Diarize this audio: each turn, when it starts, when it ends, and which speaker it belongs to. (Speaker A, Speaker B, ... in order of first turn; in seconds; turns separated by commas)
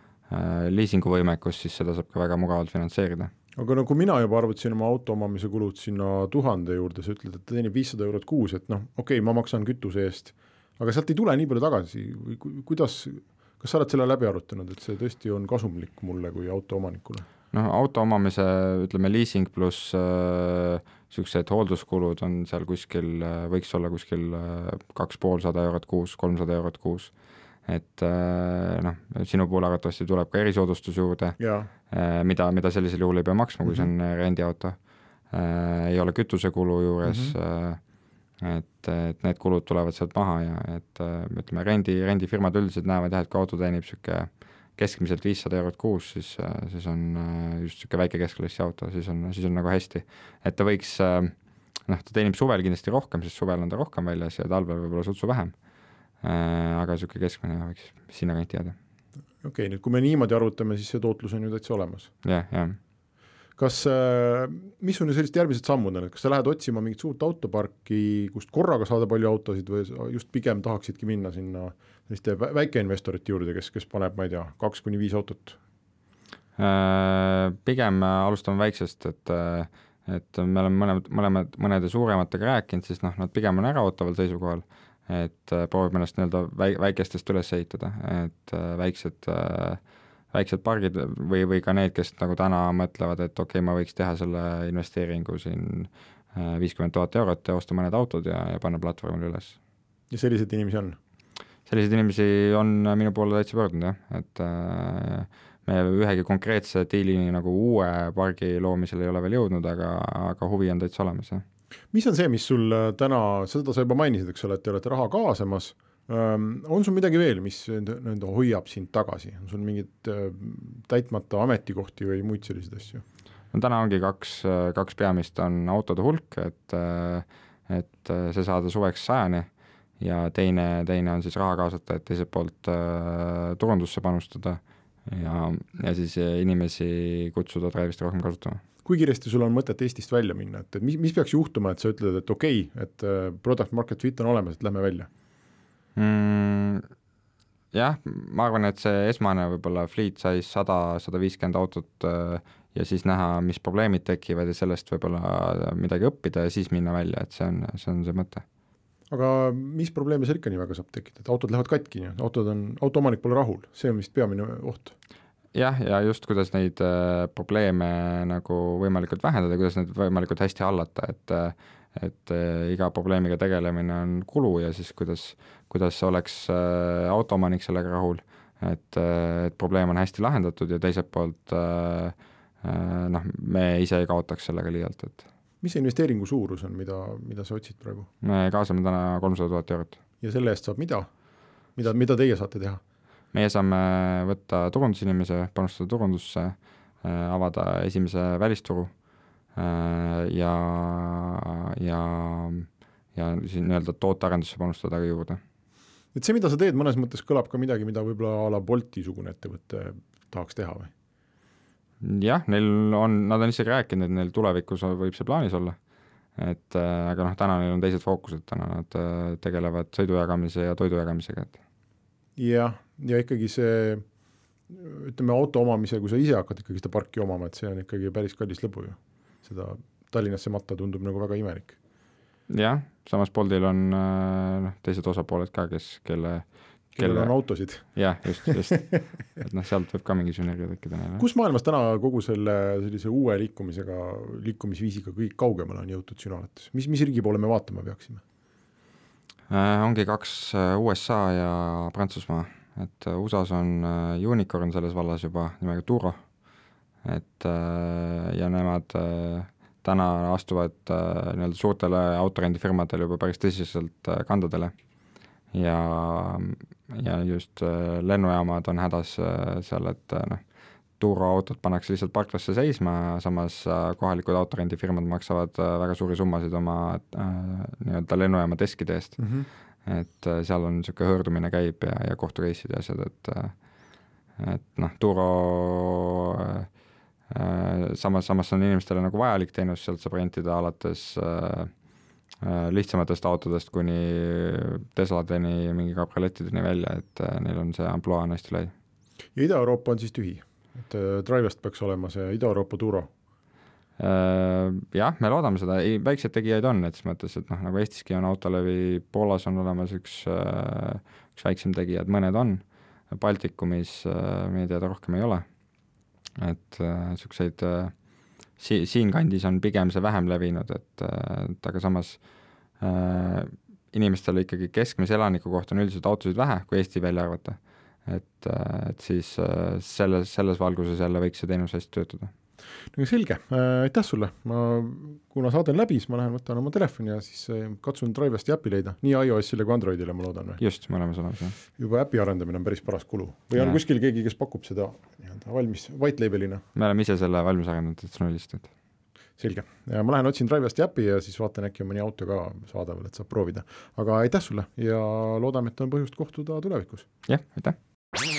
Speaker A: 0.3-3.3, Speaker B: 3.6-17.3, Speaker A: 17.5-27.1, Speaker A: 27.7-31.4, Speaker B: 31.4-31.7, Speaker A: 31.9-34.8, Speaker A: 35.3-37.8, Speaker B: 37.0-37.4, Speaker A: 38.4-51.3, Speaker A: 51.9-55.5, Speaker A: 56.2-58.8, Speaker B: 59.4-62.1, Speaker A: 62.2-62.8, Speaker B: 63.6-75.6, Speaker A: 76.6-89.8, Speaker A: 90.3-99.6, Speaker B: 100.1-101.0, Speaker A: 101.7-111.4, Speaker B: 111.9-123.0, Speaker A: 123.5-129.5, Speaker A: 130.0-138.6, Speaker B: 138.8-145.1, Speaker A: 146.0-146.8, Speaker A: 147.7-158.4, Speaker B: 159.1-164.9, Speaker A: 165.5-185.2, Speaker B: 185.6-188.1, Speaker A: 188.2-190.0, Speaker B: 190.2-191.1, Speaker B: 191.8-192.8, Speaker A: 193.3-198.9, Speaker A: 199.6-205.4, Speaker B: 206.2-210.9, Speaker A: 212.0-215.8, Speaker A: 216.4-221.6, Speaker B: 222.4-224.0, Speaker B: 224.7-231.8, Speaker A: 232.5-241.2, Speaker B: 237.0-239.0, Speaker B: 241.2-248.2, Speaker A: 249.5-256.2, Speaker A: 257.0-264.7, Speaker A: 265.5-270.4, Speaker A: 271.0-279.3, Speaker B: 279.2-279.5, Speaker A: 279.9-283.6, Speaker A: 284.4-286.7, Speaker A: 287.3-291.7, Speaker A: 292.4-298.7, Speaker B: 299.4-303.1, Speaker A: 304.0-315.4, Speaker A: 316.4-317.9, Speaker A: 318.6-322.2, Speaker A: 322.8-332.3, Speaker B: 332.9-340.6, Speaker A: 340.6-341.6, Speaker B: 341.8-346.6, Speaker A: 343.6-343.8, Speaker A: 346.8-348.7, Speaker B: 349.4-357.1, Speaker A: 357.3-357.8